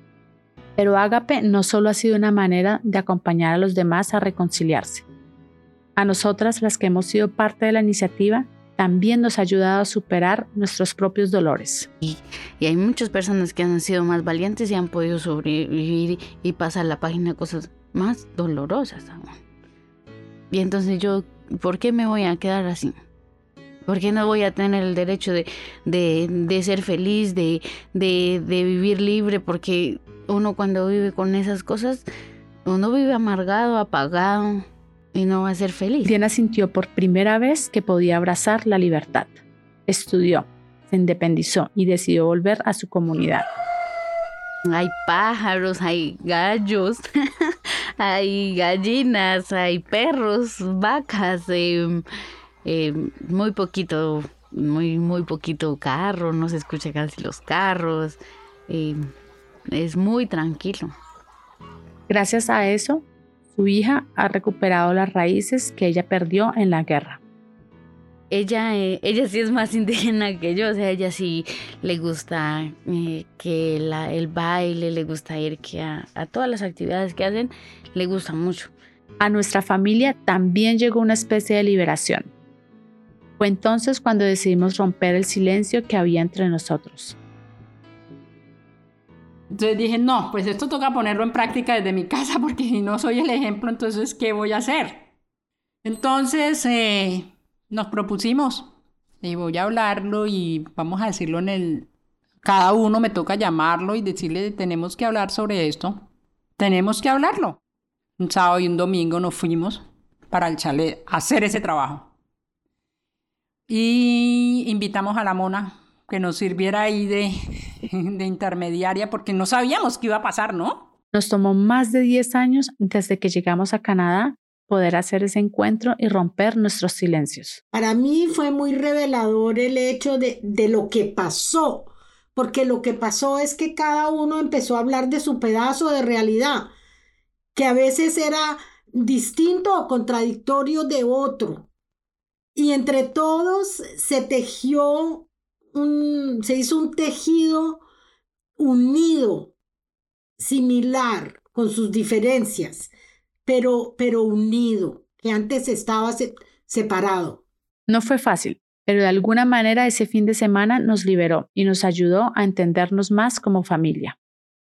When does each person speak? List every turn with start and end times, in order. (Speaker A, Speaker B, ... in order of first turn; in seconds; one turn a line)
Speaker A: 0.8-5.0
Speaker A: 6.0-11.9
Speaker B: 12.0-19.4
Speaker B: 20.5-22.9
Speaker B: 23.9-32.0
Speaker B: 32.7-36.1
Speaker A: 36.0-43.5
Speaker B: 44.7-52.0
Speaker B: 52.6-59.0
Speaker B: 59.7-60.9
Speaker A: 62.1-67.2
Speaker B: 68.3-78.7
Speaker A: 79.2-82.3
Speaker A: 83.4-87.2
Speaker C: 89.5-95.1
Speaker C: 95.8-101.9
Speaker C: 102.4-107.6
Speaker C: 108.2-112.1
Speaker C: 113.7-117.3
Speaker C: 117.8-120.9
Speaker A: 121.1-127.6
Speaker D: 127.7-136.7
Speaker D: 137.6-141.7
Speaker D: 142.6-147.8
Speaker D: 148.6-149.5
Speaker D: 150.4-152.9
Speaker D: 153.5-157.4
Speaker A: 157.9-164.2